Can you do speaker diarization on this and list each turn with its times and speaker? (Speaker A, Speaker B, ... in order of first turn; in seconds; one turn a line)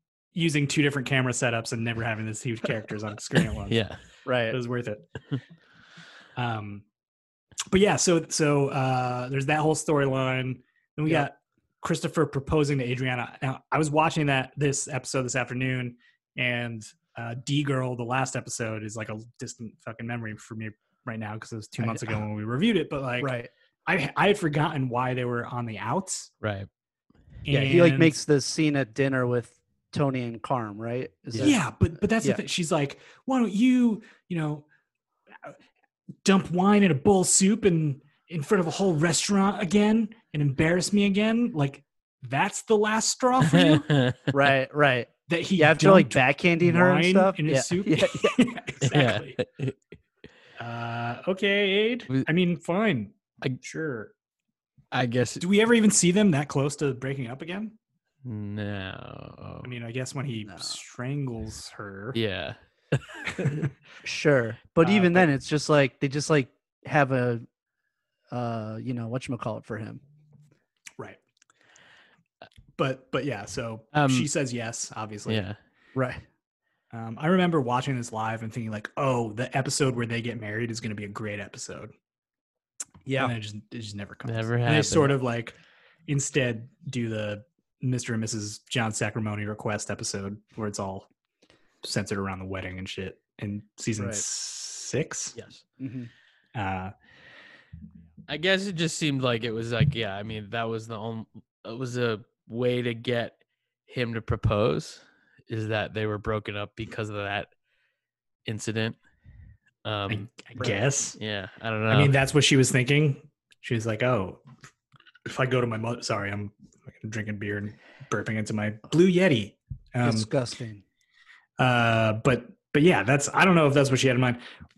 Speaker A: 0.3-3.8
Speaker B: 3.7-4.0
Speaker C: 4.2-4.6
Speaker A: 4.5-5.0
Speaker A: 6.3-6.8
Speaker A: 7.7-23.3
Speaker C: 21.8-22.1
Speaker C: 23.2-23.5
Speaker A: 23.9-26.3
Speaker B: 26.4-26.7
Speaker A: 27.5-28.1
Speaker C: 27.5-31.6
Speaker A: 31.4-34.6
Speaker A: 36.2-43.9
Speaker B: 43.4-44.3
Speaker C: 44.3-48.3
Speaker A: 45.3-49.4
Speaker B: 48.9-49.7
Speaker A: 50.6-54.1
Speaker B: 54.9-55.4
Speaker A: 55.4-57.7
Speaker B: 58.2-59.7
Speaker A: 59.6-62.2
Speaker C: 60.4-60.8
Speaker B: 62.1-63.5
Speaker A: 63.4-63.7
Speaker C: 64.0-67.5
Speaker A: 64.8-65.3
Speaker C: 68.3-70.0
Speaker A: 72.8-75.4
Speaker B: 73.9-74.3
Speaker B: 75.2-75.6
Speaker C: 75.9-76.2
Speaker A: 76.9-81.9
Speaker C: 83.0-83.3
Speaker A: 83.2-85.5
Speaker B: 84.2-85.1
Speaker A: 86.1-91.1
Speaker A: 91.8-95.3
Speaker C: 94.0-94.2
Speaker B: 95.3-95.6
Speaker C: 95.8-96.1
Speaker A: 96.5-96.9
Speaker B: 98.3-103.3
Speaker B: 103.9-107.5
Speaker B: 108.5-109.0
Speaker B: 109.8-110.5
Speaker A: 110.1-111.2
Speaker B: 111.2-112.1
Speaker A: 111.9-114.4
Speaker A: 115.3-120.3
Speaker C: 120.0-120.8
Speaker A: 121.6-124.4